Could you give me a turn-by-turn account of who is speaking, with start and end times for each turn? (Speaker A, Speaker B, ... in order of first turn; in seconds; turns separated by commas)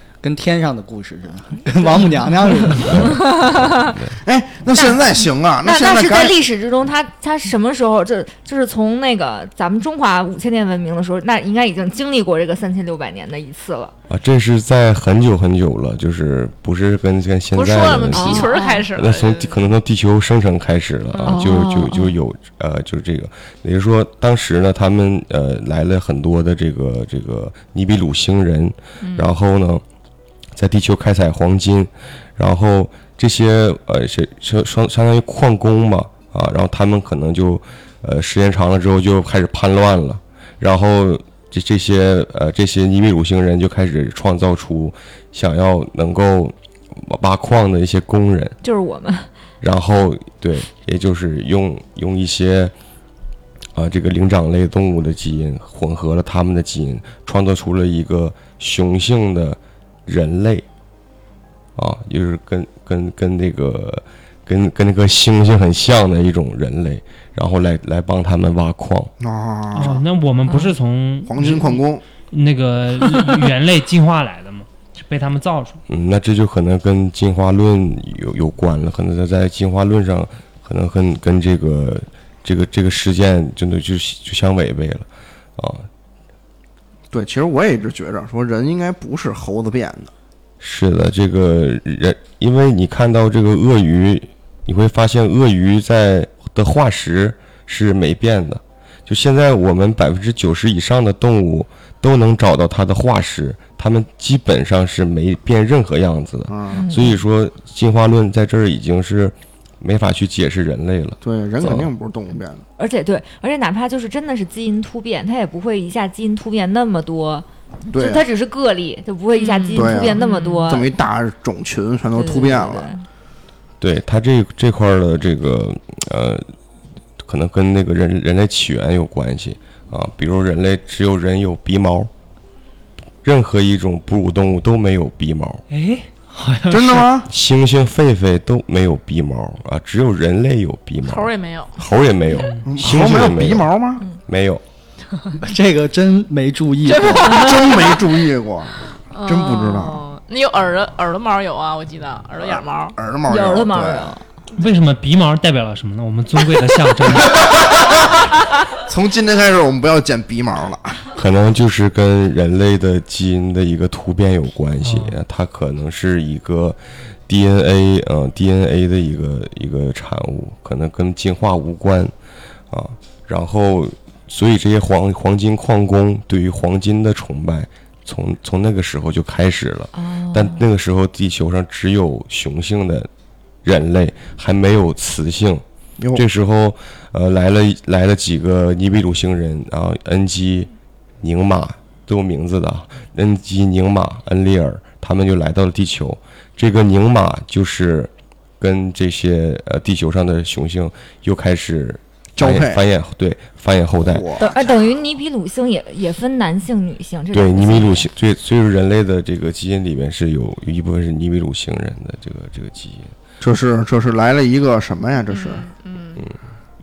Speaker A: 0.2-3.3, Speaker B: 2.9-4.1, Speaker C: 4.2-6.4, Speaker D: 4.7-13.9, Speaker B: 14.1-29.8, Speaker E: 17.5-19.6, Speaker D: 18.1-18.9, Speaker E: 21.1-21.5, Speaker D: 21.2-22.2, Speaker E: 29.0-29.3, Speaker B: 30.6-48.6, Speaker D: 48.6-49.3, Speaker B: 49.6-52.7, Speaker B: 53.8-60.6, Speaker B: 61.8-69.1, Speaker C: 69.2-70.0, Speaker F: 69.7-75.8, Speaker D: 70.5-70.8, Speaker C: 71.3-72.0, Speaker B: 75.9-85.1, Speaker B: 85.6-85.9, Speaker C: 87.1-90.1, Speaker B: 90.6-111.9, Speaker C: 106.5-106.9, Speaker D: 106.7-107.2, Speaker C: 111.2-112.6, Speaker D: 112.8-120.9, Speaker C: 117.9-118.2, Speaker E: 119.3-120.7, Speaker C: 119.8-122.9, Speaker D: 122.2-123.0, Speaker B: 123.8-126.5, Speaker B: 127.2-132.1, Speaker B: 133.2-135.6, Speaker F: 135.7-137.1, Speaker C: 136.7-137.3, Speaker B: 137.3-144.6, Speaker E: 141.0-141.8, Speaker F: 142.4-142.7, Speaker C: 142.6-144.1, Speaker A: 145.4-147.4, Speaker E: 146.8-148.0, Speaker C: 147.3-150.0, Speaker E: 149.1-152.9, Speaker C: 152.5-154.2, Speaker D: 153.3-154.2, Speaker F: 154.6-157.5, Speaker C: 157.5-158.1, Speaker C: 158.9-161.1, Speaker B: 161.1-172.1, Speaker F: 164.8-165.2, Speaker B: 172.7-183.1, Speaker D: 179.9-180.7, Speaker B: 183.6-185.6, Speaker B: 186.1-190.7, Speaker B: 191.2-204.3, Speaker C: 202.4-202.8, Speaker C: 204.1-204.6, Speaker D: 204.4-208.1, Speaker B: 207.3-213.1, Speaker C: 213.4-215.7, Speaker E: 215.3-216.2